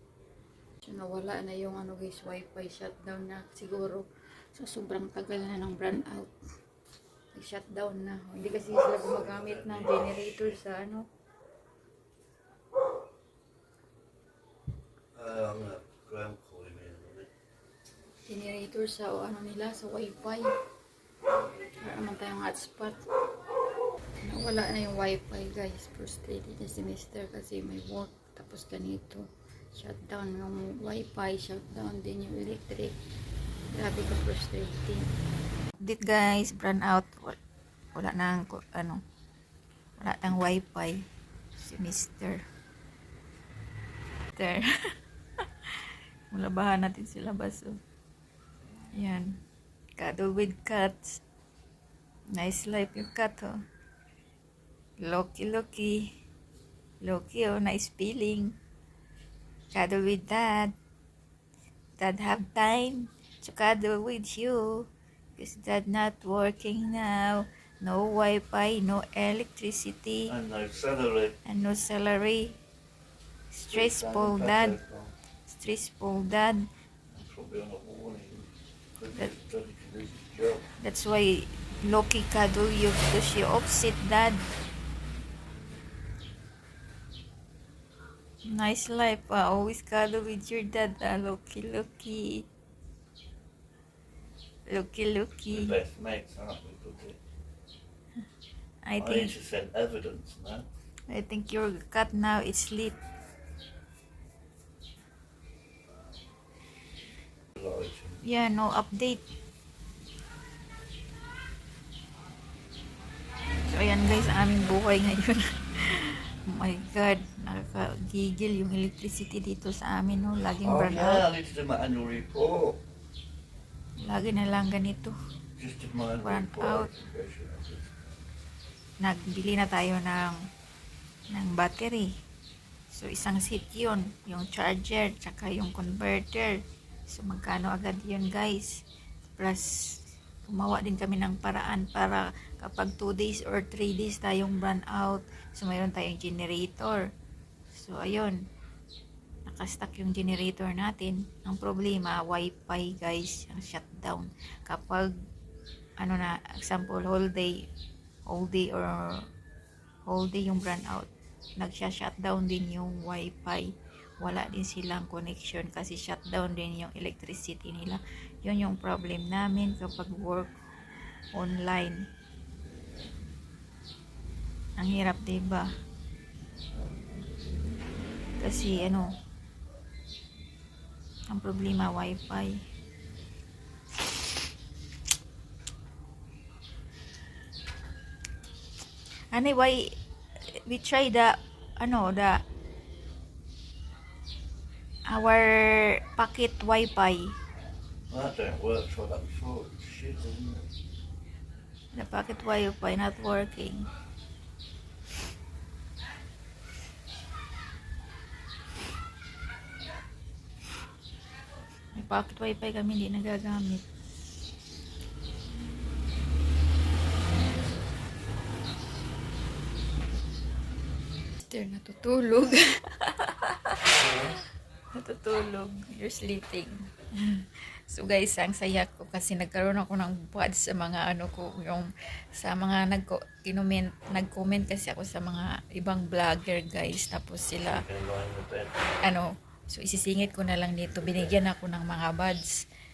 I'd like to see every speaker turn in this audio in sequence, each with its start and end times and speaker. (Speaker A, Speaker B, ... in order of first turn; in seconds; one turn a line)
Speaker A: 0.8-6.3
Speaker A: 7.3-11.1
Speaker B: 8.7-10.6
Speaker B: 15.1-17.3
Speaker A: 18.3-20.5
Speaker A: 21.8-23.0
Speaker A: 24.2-33.0
Speaker A: 33.7-35.1
Speaker A: 35.8-37.4
Speaker A: 38.0-39.0
Speaker A: 40.0-41.0
Speaker A: 41.6-42.4
Speaker A: 44.4-44.7
Speaker A: 46.3-47.8
Speaker A: 48.9-49.4
Speaker A: 50.0-51.2
Speaker A: 52.4-53.5
Speaker A: 55.0-56.1
Speaker A: 57.0-58.5
Speaker A: 59.7-60.7
Speaker A: 62.0-64.9
Speaker A: 65.4-70.3
Speaker B: 70.3-71.4
Speaker A: 71.5-72.5
Speaker A: 73.5-74.8
Speaker B: 73.7-75.1
Speaker A: 75.5-76.7
Speaker B: 77.1-80.7
Speaker A: 80.8-84.4
Speaker A: 88.5-92.5
Speaker A: 94.7-95.8
Speaker B: 95.5-97.2
Speaker A: 98.9-99.3
Speaker B: 99.0-100.7
Speaker A: 101.1-103.0
Speaker B: 107.6-108.2
Speaker A: 108.2-109.2
Speaker A: 113.7-121.2
Speaker B: 120.6-122.8
Speaker A: 124.0-125.1
Speaker B: 125.6-128.0
Speaker A: 126.2-126.9
Speaker A: 129.0-130.4
Speaker A: 131.3-132.1
Speaker A: 132.9-138.8
Speaker A: 139.4-147.1
Speaker A: 147.7-148.4
Speaker A: 149.5-155.1
Speaker A: 156.0-157.6
Speaker A: 158.3-159.3
Speaker A: 160.1-163.7
Speaker A: 164.2-170.5
Speaker A: 171.3-172.1
Speaker A: 174.8-175.7
Speaker A: 178.4-179.1
Speaker A: 181.3-182.6
Speaker A: 189.3-189.9
Speaker A: 190.7-192.4
Speaker A: 195.1-197.3
Speaker B: 198.1-200.7
Speaker A: 201.9-203.9
Speaker A: 211.9-213.8
Speaker A: 221.4-224.3
Speaker A: 225.0-237.8
Speaker B: 237.7-239.0
Speaker A: 239.0-242.6